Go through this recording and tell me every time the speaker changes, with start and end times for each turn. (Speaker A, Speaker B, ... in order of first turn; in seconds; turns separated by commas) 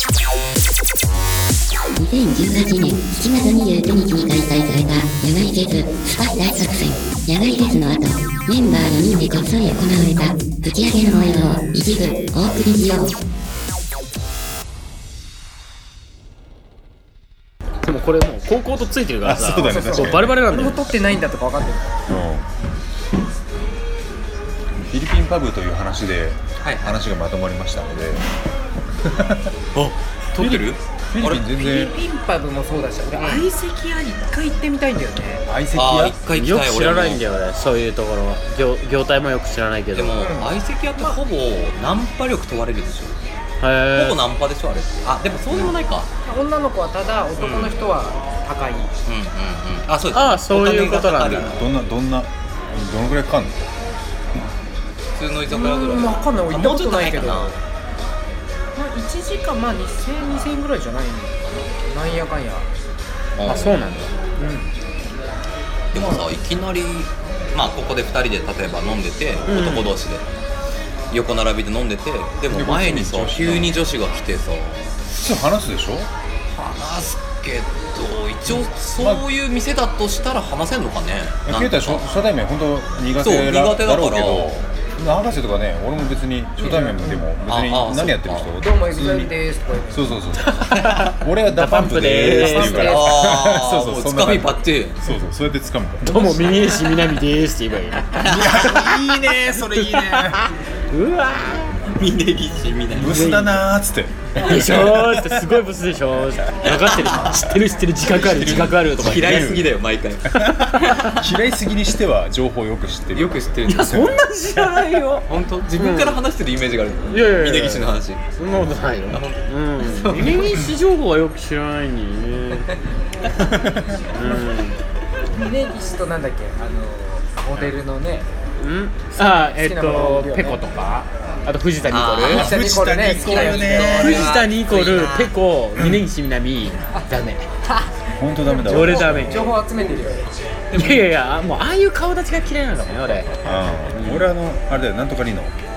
Speaker A: 2.0-13.2, Speaker B: 17.8-20.9, Speaker C: 19.2-20.5, Speaker D: 19.6-22.0, Speaker C: 22.1-22.5, Speaker C: 24.8-28.2, Speaker E: 26.6-27.0, Speaker C: 29.0-29.5, Speaker E: 29.8-31.4, Speaker C: 30.4-31.9, Speaker D: 31.5-35.4, Speaker E: 33.2-33.5, Speaker C: 35.5-36.2, Speaker E: 35.8-37.2, Speaker B: 36.4-40.3, Speaker E: 39.9-43.2, Speaker D: 40.2-41.2, Speaker B: 43.6-44.2, Speaker E: 43.9-46.1, Speaker D: 46.2-48.9, Speaker E: 47.4-47.8, Speaker E: 49.1-51.6, Speaker B: 50.1-51.6, Speaker C: 51.5-53.7, Speaker E: 55.2-57.6, Speaker D: 55.5-57.6, Speaker D: 58.8-62.7, Speaker E: 63.4-63.8, Speaker B: 63.5-64.1, Speaker D: 64.4-64.7, Speaker E: 65.9-70.2, Speaker B: 69.5-69.9, Speaker E: 71.1-74.9, Speaker C: 72.5-73.9, Speaker C: 75.1-76.1, Speaker E: 76.6-82.0, Speaker C: 79.0-79.2, Speaker C: 81.5-89.3, Speaker E: 83.2-84.6, Speaker D: 86.6-87.2, Speaker E: 87.5-88.6, Speaker D: 88.6-90.2, Speaker C: 89.9-96.4, Speaker B: 90.4-92.9, Speaker E: 90.7-91.2, Speaker E: 92.2-95.0, Speaker D: 92.3-93.2, Speaker B: 96.0-101.8, Speaker E: 98.2-98.7, Speaker C: 98.2-100.5, Speaker E: 101.9-103.4, Speaker C: 102.9-105.5, Speaker B: 103.0-103.6, Speaker B: 104.4-109.6, Speaker C: 108.0-109.7, Speaker E: 108.5-111.2, Speaker C: 110.3-114.2, Speaker E: 113.1-118.2, Speaker B: 113.7-116.2, Speaker B: 117.1-122.7, Speaker E: 119.1-120.7, Speaker C: 123.4-123.9, Speaker B: 124.1-124.8, Speaker D: 125.3-128.3, Speaker B: 128.6-132.5, Speaker D: 129.2-130.7, Speaker E: 131.9-135.4, Speaker C: 132.3-134.3, Speaker D: 132.3-134.0, Speaker B: 133.8-137.5, Speaker D: 137.7-140.2, Speaker C: 138.2-139.5, Speaker B: 138.7-139.5, Speaker E: 140.7-141.1, Speaker B: 140.8-144.3, Speaker C: 143.4-145.6